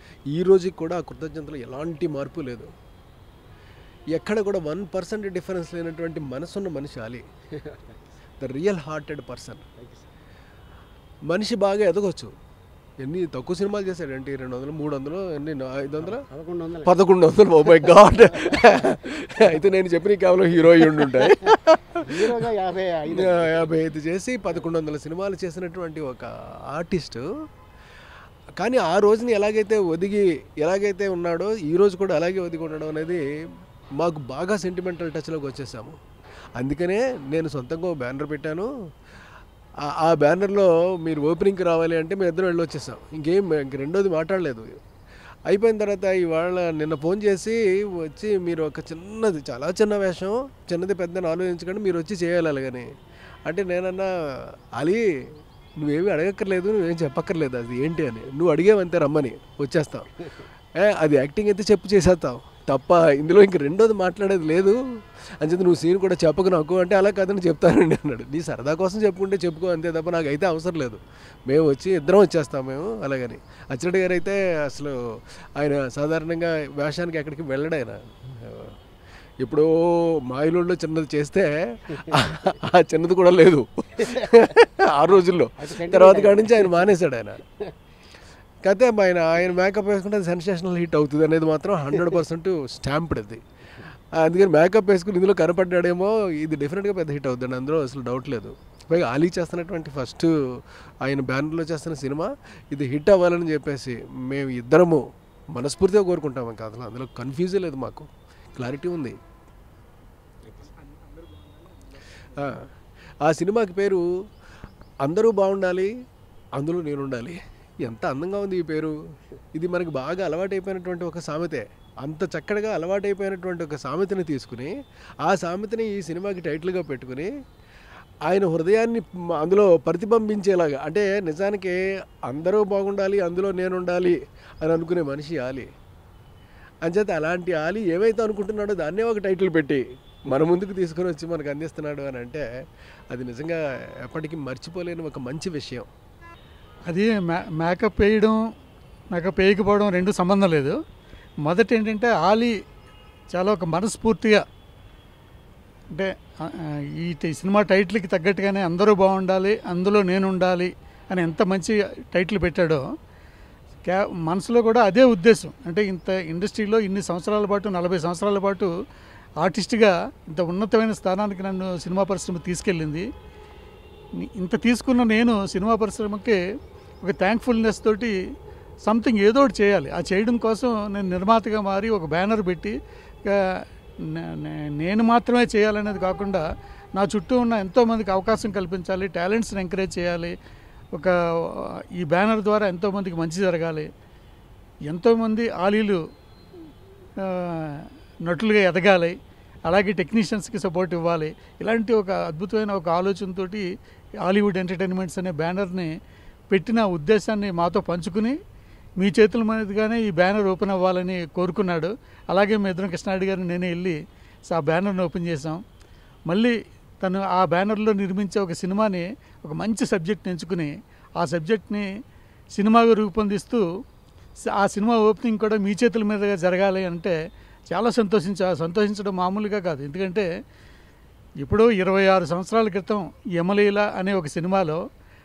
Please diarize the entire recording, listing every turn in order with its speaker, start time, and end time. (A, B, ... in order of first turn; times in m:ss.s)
0:00.3-0:02.7 A
0:04.1-0:07.2 A
0:07.6-0:07.9 B
0:08.4-0:09.6 A
0:09.8-0:10.0 B
0:11.3-0:12.3 A
0:13.0-0:16.2 A
0:16.0-0:16.9 B
0:16.8-0:22.0 A
0:22.0-0:23.8 B
0:23.1-0:27.2 A
0:28.6-0:33.2 A
0:34.0-0:36.0 A
0:36.6-0:38.7 A
0:39.8-0:44.7 A
0:45.5-0:52.9 A
0:53.4-0:55.0 A
0:55.8-1:00.2 A
1:00.8-1:04.8 A
1:05.4-1:15.0 A
1:15.6-1:18.7 A
1:19.4-1:27.4 A
1:24.0-1:24.5 B
1:25.6-1:26.9 B
1:28.6-1:33.4 A
1:34.2-1:40.3 A
1:41.0-1:49.2 A
1:50.5-1:50.8 B
1:52.3-1:52.6 A
1:53.2-1:54.0 A
1:55.0-1:55.9 A
1:56.6-1:58.9 A
1:59.5-2:04.7 A
2:05.2-2:07.3 A
2:08.3-2:15.7 A
2:16.8-2:22.4 A
2:23.1-2:25.9 A
2:26.9-2:28.4 C
2:29.1-2:30.7 C
2:31.4-2:32.5 C
2:33.3-2:34.4 C
2:35.9-2:42.8 C
2:43.9-2:48.7 C
2:49.4-2:53.0 C
2:54.2-2:56.4 C
2:57.0-2:58.1 C
2:58.8-3:02.7 C
3:04.1-3:06.4 C
3:07.0-3:10.3 C
3:11.0-3:13.9 C
3:14.9-3:16.0 C
3:17.2-3:19.1 C
3:19.7-3:23.6 C
3:24.2-3:25.9 C
3:26.5-3:28.4 C
3:29.0-3:34.0 C
3:34.5-3:35.6 C
3:36.3-3:41.8 C
3:42.5-3:43.6 C
3:44.6-3:47.1 C
3:47.7-3:50.3 C
3:51.4-3:54.8 C